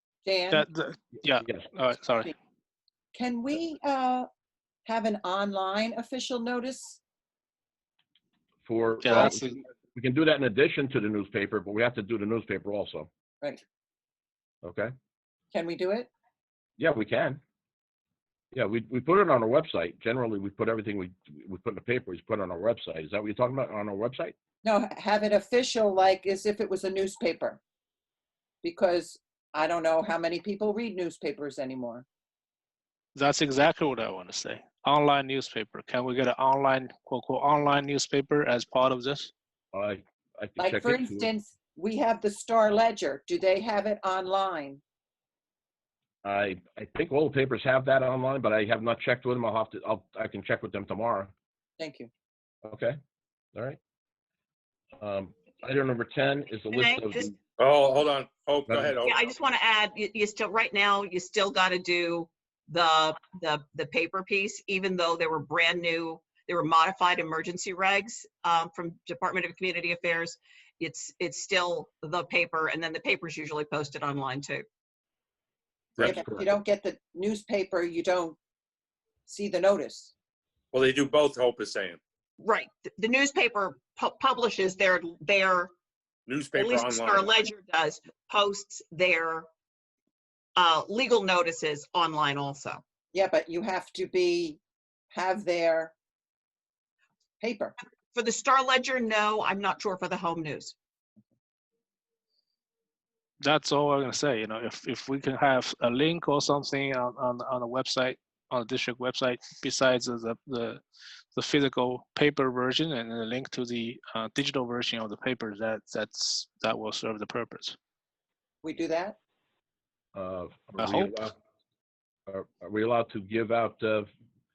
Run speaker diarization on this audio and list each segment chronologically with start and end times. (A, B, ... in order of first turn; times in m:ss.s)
0:00.2-0:00.7 A
0:00.5-0:02.3 B
0:03.1-0:04.3 A
0:04.9-0:07.0 A
0:08.6-0:13.1 C
0:09.1-0:09.4 B
0:14.6-0:14.9 C
0:15.5-0:16.1 A
0:16.8-0:17.4 C
0:18.5-0:24.3 C
0:24.6-0:27.6 A
0:28.6-0:32.0 A
0:33.1-0:39.3 B
0:39.7-0:41.3 C
0:40.6-0:44.8 A
0:46.2-0:51.3 C
0:51.8-0:52.1 A
0:52.6-0:53.0 C
0:55.0-0:57.3 C
0:56.7-0:57.3 D
0:57.6-0:59.3 E
0:58.7-0:59.0 C
0:59.0-1:14.6 D
1:16.0-1:16.6 C
1:16.0-1:18.4 A
1:19.3-1:20.1 A
1:20.7-1:22.0 E
1:22.4-1:25.7 D
1:26.3-1:27.4 E
1:26.6-1:29.5 D
1:30.6-1:32.8 D
1:33.1-1:34.6 A
1:35.1-1:35.9 A
1:37.4-1:37.8 A
1:38.1-1:40.7 D
1:43.4-1:50.8 B
1:51.3-1:57.8 B
1:58.6-1:59.2 A
2:00.2-2:01.3 C
2:00.8-2:01.2 B
2:02.3-2:04.1 C